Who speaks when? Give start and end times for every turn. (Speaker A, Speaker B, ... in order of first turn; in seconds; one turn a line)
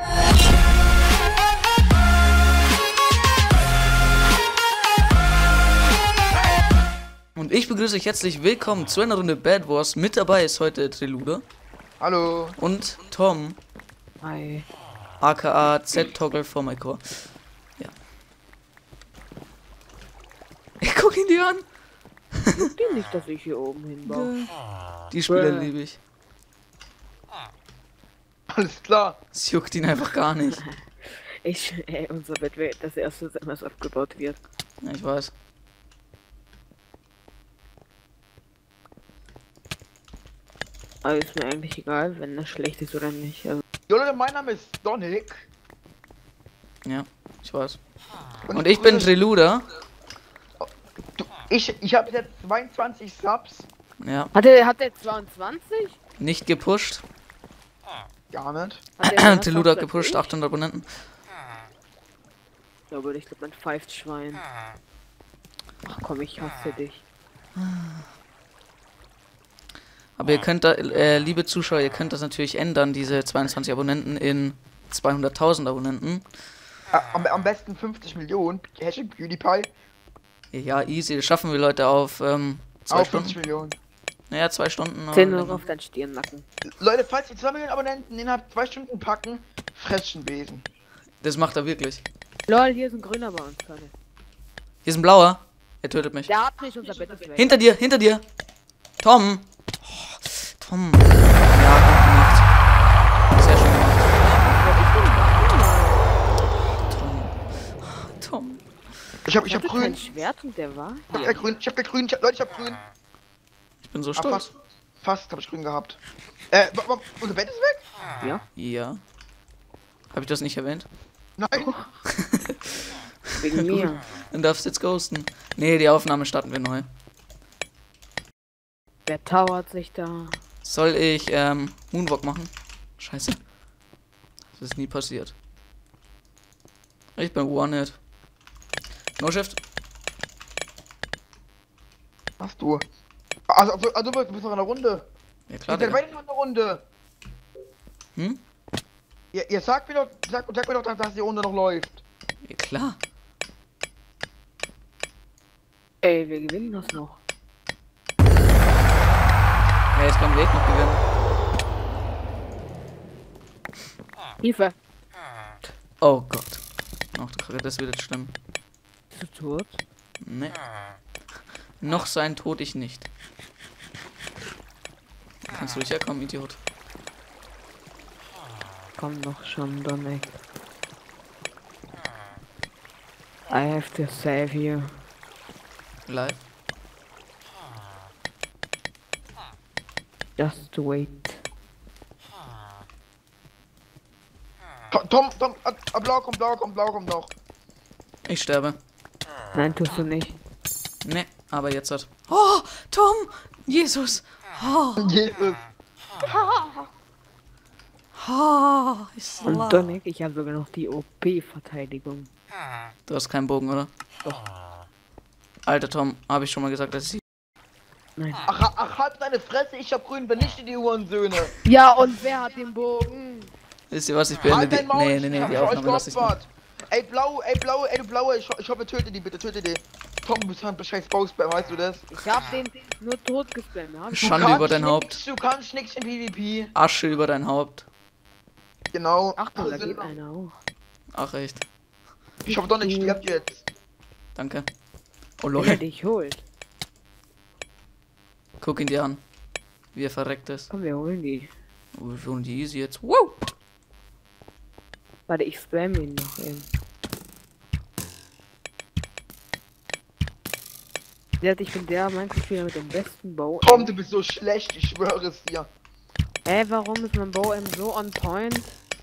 Speaker A: 7.4-11.4
Speaker B: 12.0-12.6
Speaker A: 12.6-13.6
Speaker C: 14.2-14.7
Speaker A: 15.2-17.9
Speaker A: 20.8-21.6
Speaker C: 22.6-24.4
Speaker A: 24.1-24.6
Speaker A: 25.1-26.0
Speaker C: 25.3-25.7
Speaker B: 28.5-29.2
Speaker A: 29.3-30.6
Speaker C: 31.4-34.4
Speaker A: 34.8-35.3
Speaker C: 41.0-43.6
Speaker B: 43.9-45.5
Speaker A: 46.9-47.8
Speaker B: 48.5-49.1
Speaker A: 48.5-49.6
Speaker B: 50.6-53.7
Speaker A: 54.0-54.3
Speaker C: 54.3-56.0
Speaker A: 56.2-57.0
Speaker B: 58.3-58.9
Speaker C: 59.0-60.3
Speaker A: 59.0-61.0
Speaker C: 62.9-64.5
Speaker C: 65.8-67.0
Speaker A: 67.6-68.0
Speaker A: 70.2-76.3
Speaker B: 76.9-79.7
Speaker A: 80.5-83.4
Speaker B: 82.9-83.8
Speaker A: 84.3-85.7
Speaker C: 85.1-86.5
Speaker B: 86.8-90.7
Speaker A: 91.2-92.0
Speaker C: 92.5-93.9
Speaker A: 94.8-96.3
Speaker C: 96.3-97.5
Speaker A: 97.4-98.2
Speaker A: 99.0-102.5
Speaker A: 103.3-104.1
Speaker C: 104.1-106.0
Speaker A: 106.9-108.6
Speaker B: 109.2-110.0
Speaker C: 109.5-111.4
Speaker B: 111.1-112.8
Speaker A: 113.8-114.5
Speaker B: 114.2-114.5
Speaker B: 115.0-116.0
Speaker B: 116.5-117.8
Speaker C: 118.2-118.5
Speaker A: 118.5-119.0
Speaker A: 120.1-120.9
Speaker B: 121.4-121.8
Speaker C: 121.6-121.9
Speaker A: 122.1-122.8
Speaker C: 123.4-124.0
Speaker A: 123.5-126.9
Speaker C: 129.1-130.4
Speaker A: 130.6-133.4
Speaker A: 134.6-135.3
Speaker A: 137.2-138.0
Speaker A: 139.2-139.6
Speaker B: 142.4-142.8
Speaker B: 143.5-145.1
Speaker A: 145.5-146.0
Speaker B: 145.7-146.8
Speaker A: 148.2-148.4
Speaker B: 149.3-152.0
Speaker A: 152.4-153.0
Speaker C: 156.0-157.2
Speaker A: 159.9-161.0
Speaker C: 164.4-164.7
Speaker A: 166.0-166.6
Speaker A: 167.1-168.3
Speaker C: 169.1-169.8
Speaker A: 170.2-170.6
Speaker A: 171.8-173.1
Speaker A: 175.5-176.6
Speaker C: 179.0-180.3
Speaker C: 183.5-184.9
Speaker A: 186.1-186.4
Speaker C: 190.4-191.4
Speaker B: 194.9-197.3
Speaker A: 198.3-198.8
Speaker C: 199.5-200.4
Speaker A: 201.0-205.1
Speaker B: 205.0-205.7
Speaker A: 208.2-209.9
Speaker C: 209.4-212.3
Speaker A: 213.1-213.9
Speaker A: 215.7-217.2
Speaker C: 218.2-218.4
Speaker B: 218.5-221.5
Speaker C: 221.6-223.5
Speaker A: 223.9-226.3
Speaker B: 224.4-232.1
Speaker C: 232.1-234.5
Speaker B: 234.1-236.7
Speaker A: 234.2-235.2
Speaker A: 236.8-237.9
Speaker B: 238.9-240.1
Speaker C: 239.4-240.6
Speaker A: 241.1-241.7
Speaker C: 242.5-243.2
Speaker B: 242.5-243.7
Speaker A: 244.3-244.7
Speaker A: 245.4-245.8
Speaker C: 245.5-246.4
Speaker A: 248.6-249.2
Speaker A: 249.9-250.7
Speaker C: 250.7-251.5
Speaker A: 251.9-253.5
Speaker C: 255.3-256.7
Speaker C: 261.4-263.9
Speaker B: 263.6-265.7
Speaker C: 266.4-268.8